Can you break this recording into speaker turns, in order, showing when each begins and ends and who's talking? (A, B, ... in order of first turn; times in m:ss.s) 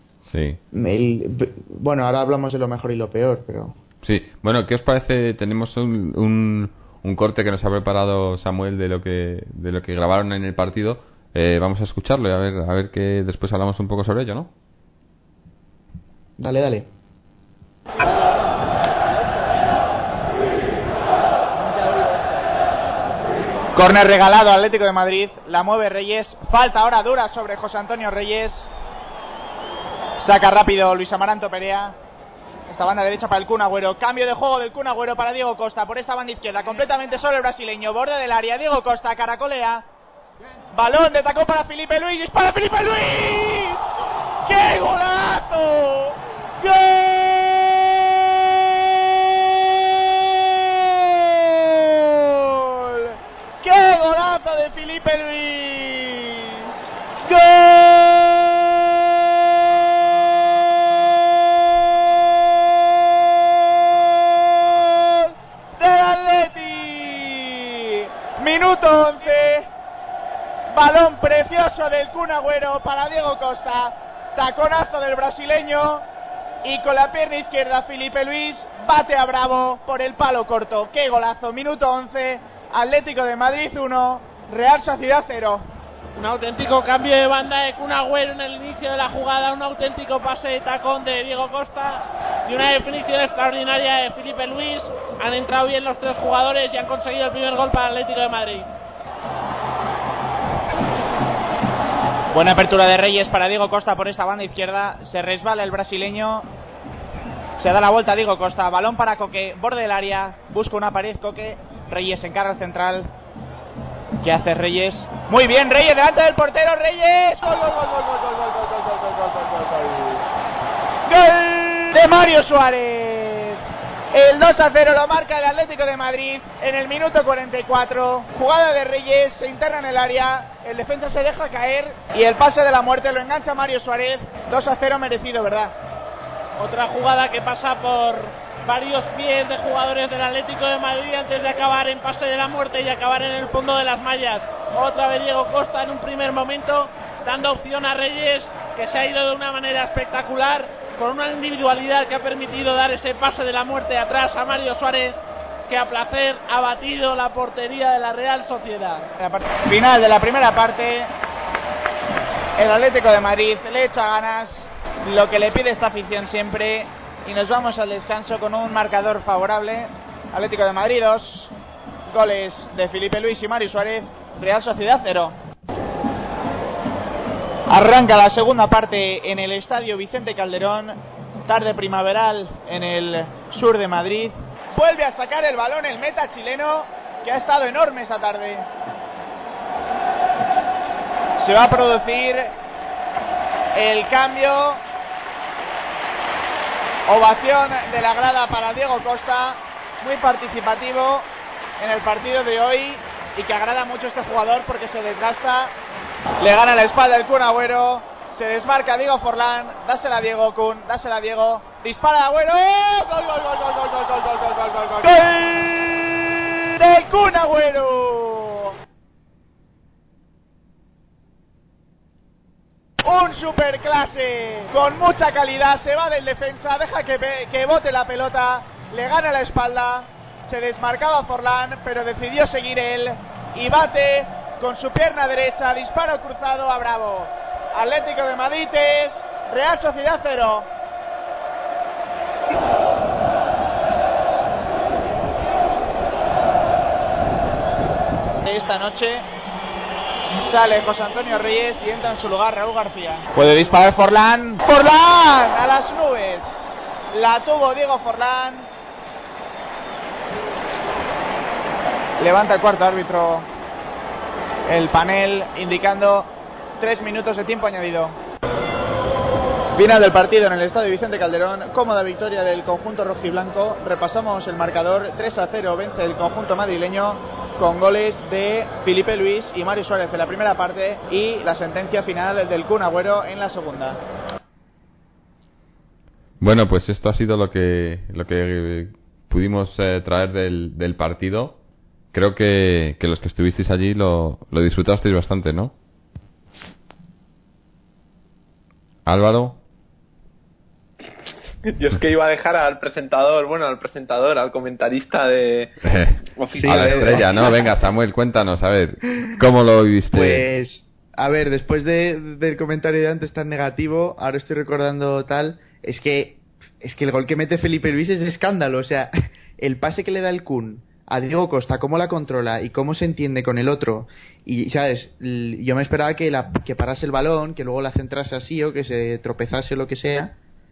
0:00.2-0:00.6 A
0:00.7-0:03.8 B
0:04.0-0:14.5 A
0:16.4-0:16.9 B
0:23.8-0:28.7 C
0:30.2-0:32.0 C
0:32.7-0:39.8 C
0:40.7-0:43.9 C
0:44.5-0:48.8 C
0:50.8-0:56.5 C
0:57.3-0:59.6 C
1:04.0-1:09.7 C
1:10.7-1:16.0 C
1:16.6-1:25.6 C
1:26.2-1:38.7 D
1:42.3-1:46.5 C
1:47.6-1:53.1 C
1:54.2-2:00.1 C
2:01.1-2:03.6 C
2:04.1-2:15.8 C
2:16.6-2:35.2 D
2:35.7-2:39.1 D
2:39.2-2:41.1 C
2:42.6-2:51.5 C
2:52.1-2:55.4 C
2:57.7-3:08.7 C
3:11.4-3:12.5 C
3:13.8-3:14.8 C
3:17.1-3:21.3 C
3:21.8-3:25.7 C
3:26.4-3:38.8 C
3:43.0-4:00.7 C
4:08.4-4:09.2 C
4:10.4-4:18.7 C
4:22.2-4:23.5 C
4:24.7-4:28.2 C
4:29.8-4:44.0 C
4:46.4-4:51.6 A
4:52.1-4:55.7 A
4:59.1-4:59.6 A
5:01.7-5:05.8 E
5:05.8-5:10.5 A
5:06.4-5:07.4 E
5:06.5-5:07.3 B
5:10.1-5:30.4 B